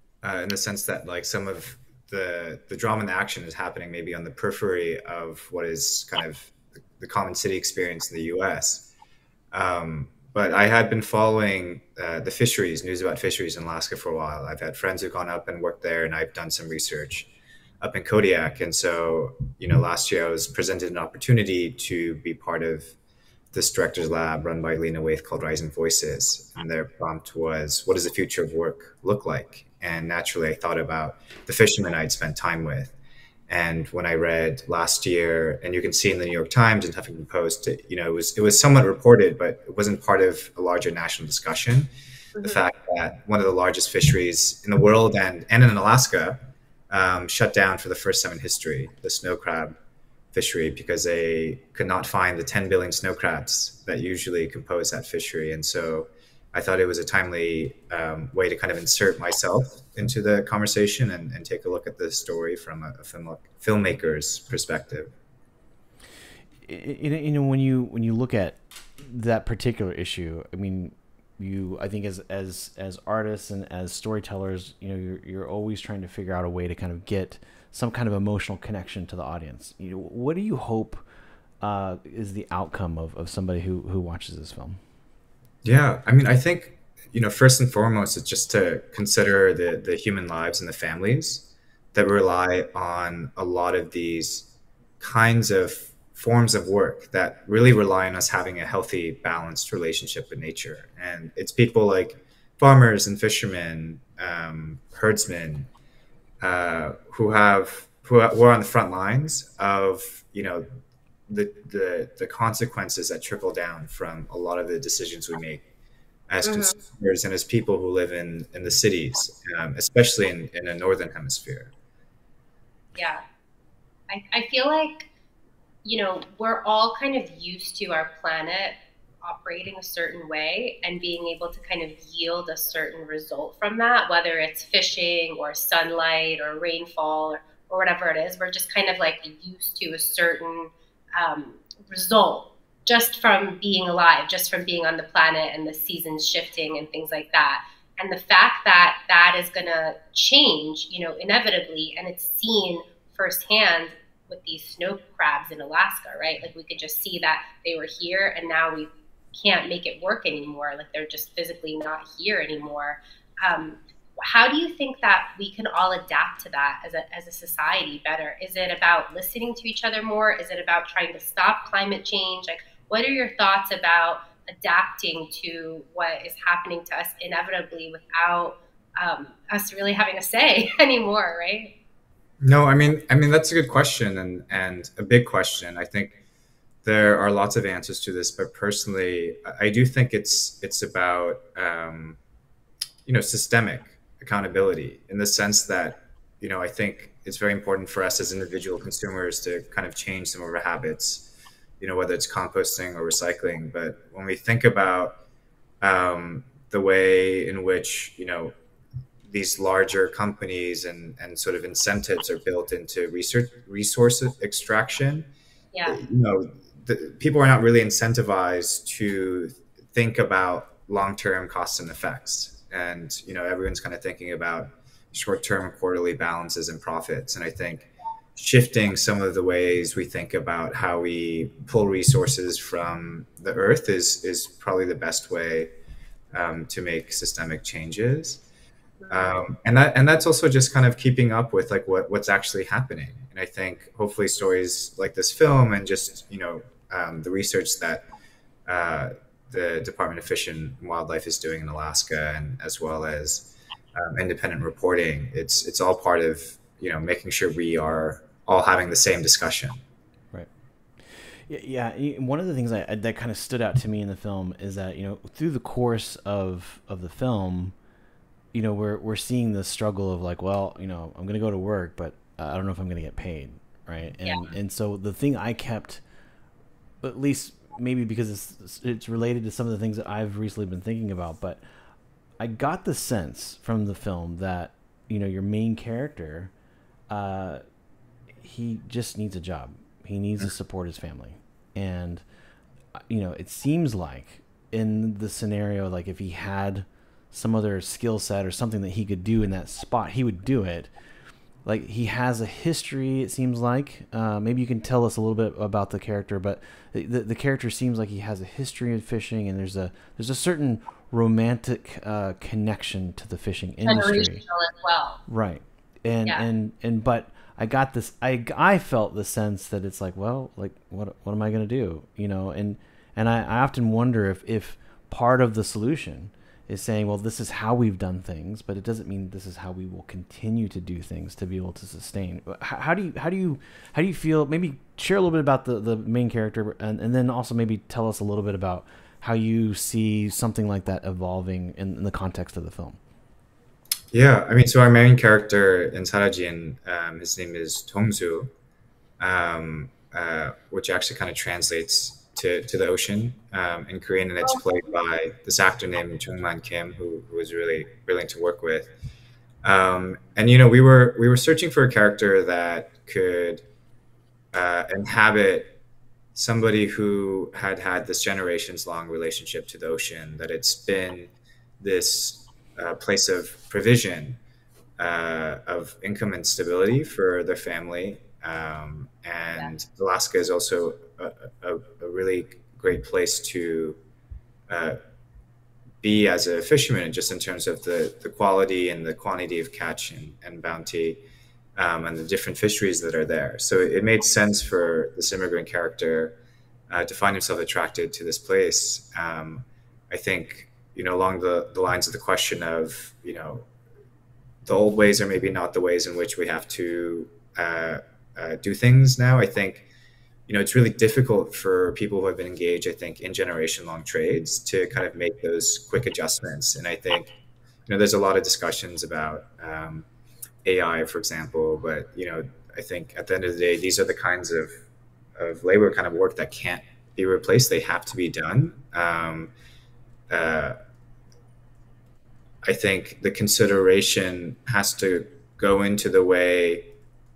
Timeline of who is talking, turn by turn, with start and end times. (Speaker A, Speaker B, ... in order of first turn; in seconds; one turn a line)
Speaker A: 0.2-8.8
Speaker A: 9.5-17.3
Speaker A: 17.8-22.9
Speaker A: 23.5-32.9
Speaker A: 33.5-41.9
Speaker B: 42.3-42.6
Speaker A: 42.4-46.4
Speaker A: 46.9-49.7
Speaker A: 50.3-65.1
Speaker C: 66.6-81.0
Speaker C: 81.6-84.8
Speaker A: 85.6-94.5
Speaker A: 95.0-105.7
Speaker A: 106.4-110.7
Speaker A: 111.3-115.6
Speaker A: 116.3-121.7
Speaker B: 116.4-116.7
Speaker B: 122.9-123.2
Speaker B: 124.1-125.1
Speaker B: 125.8-181.7
Speaker A: 182.4-186.2
Speaker A: 186.8-192.2
Speaker A: 193.1-201.2
Speaker A: 201.8-205.2
Speaker A: 205.8-208.5
Speaker A: 209.3-215.3
Speaker B: 215.7-216.0
Speaker A: 215.8-235.7
Speaker A: 236.3-238.4
Speaker B: 239.0-239.4
Speaker A: 239.1-248.0
Speaker A: 248.7-259.8
Speaker C: 261.0-267.7
Speaker C: 268.5-276.0
Speaker B: 274.2-274.5
Speaker C: 277.0-281.6
Speaker C: 282.4-286.5
Speaker C: 287.1-287.6
Speaker C: 288.4-292.2
Speaker C: 292.9-300.9
Speaker C: 301.6-314.4
Speaker B: 313.9-315.2
Speaker C: 315.3-343.0
Speaker A: 344.1-348.5
Speaker A: 349.2-358.9
Speaker A: 359.6-363.6
Speaker A: 364.5-365.7
Speaker A: 366.3-374.4
Speaker A: 375.0-384.0
Speaker A: 384.7-385.0
Speaker A: 386.0-391.2
Speaker A: 391.8-396.3
Speaker A: 396.9-403.6
Speaker A: 404.6-409.8
Speaker A: 410.5-417.3
Speaker A: 417.9-420.0
Speaker A: 420.6-424.7
Speaker A: 425.4-429.5
Speaker A: 430.3-430.8
Speaker A: 432.6-436.9